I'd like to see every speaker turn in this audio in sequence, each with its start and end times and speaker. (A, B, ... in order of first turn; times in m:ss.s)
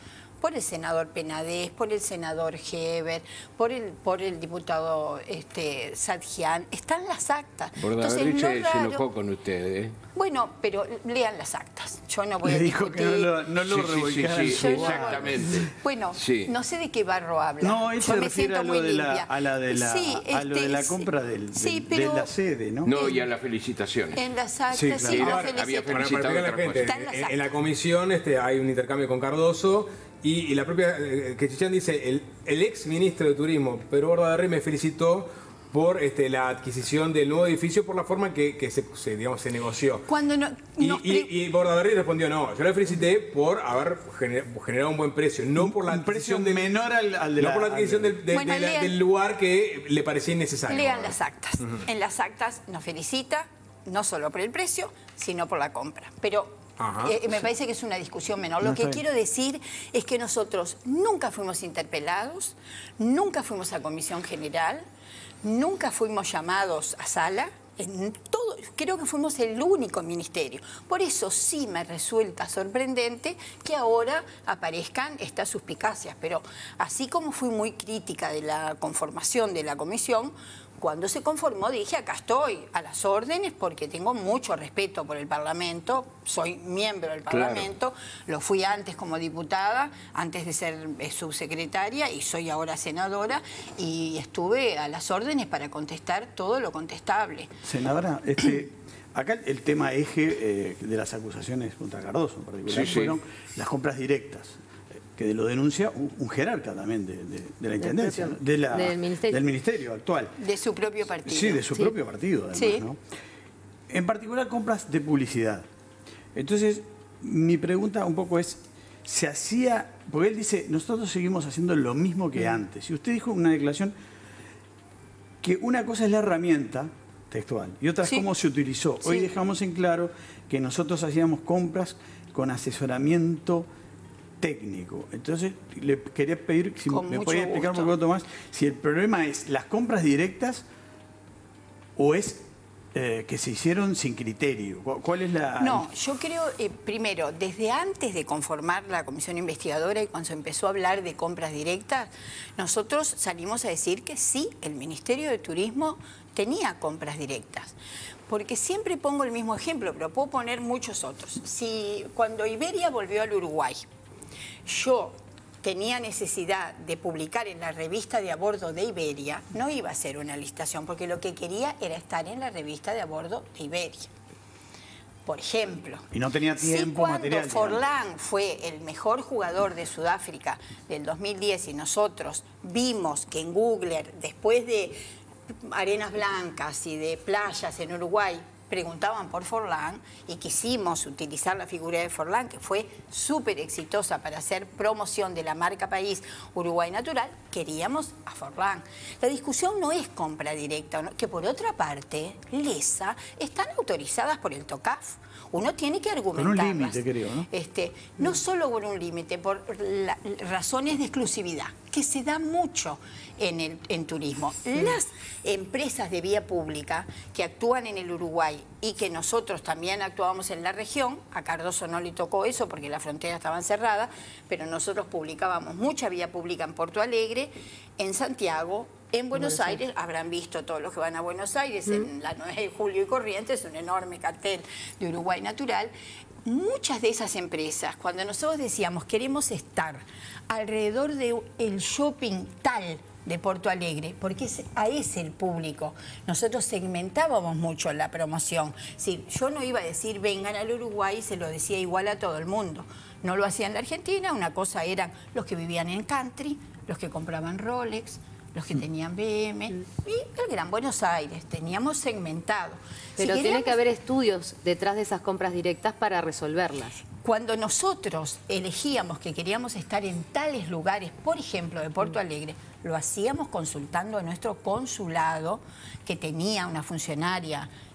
0:00.4-0:09.0 A
0:07.8-0:10.0 B
0:10.1-0:13.4 A
0:12.4-0:15.6 C
0:13.6-0:16.5 B
0:14.5-0:22.3 A
0:17.6-0:22.9 C
0:22.8-0:24.2 B
0:22.9-0:23.2 A
0:24.1-0:26.3 A
0:24.7-0:40.1 D
0:24.8-0:25.3 C
0:25.1-0:26.9 B
0:26.8-0:27.4 A
0:40.1-0:41.3 A
0:40.8-0:46.8 D
0:45.6-0:48.2 C
0:47.4-0:51.1 D
0:48.3-0:49.0 A
0:50.7-1:04.8 A
0:56.8-0:57.2 D
0:58.6-0:59.0 C
1:05.4-1:37.5 A
1:27.3-1:27.7 B
1:37.6-1:44.6 C
1:42.7-1:43.2 B
1:45.1-1:50.4 C
1:47.8-1:49.4 E
1:50.4-1:51.7 A
1:51.2-1:53.0 C
1:52.5-1:52.8 A
1:53.9-1:55.6 C
1:56.3-2:03.9 C
2:05.4-2:13.7 C
2:14.4-2:20.6 C
2:16.9-2:17.9 A
2:22.0-2:25.9 C
2:25.6-2:37.8 A
2:38.3-2:43.8 A
2:44.6-2:54.1 A
2:55.2-3:05.0 A
2:56.1-2:57.8 C
3:05.5-3:55.9 A
3:26.3-3:27.5 C
3:56.4-4:23.8 A
4:23.2-4:27.0 E
4:27.2-4:37.7 A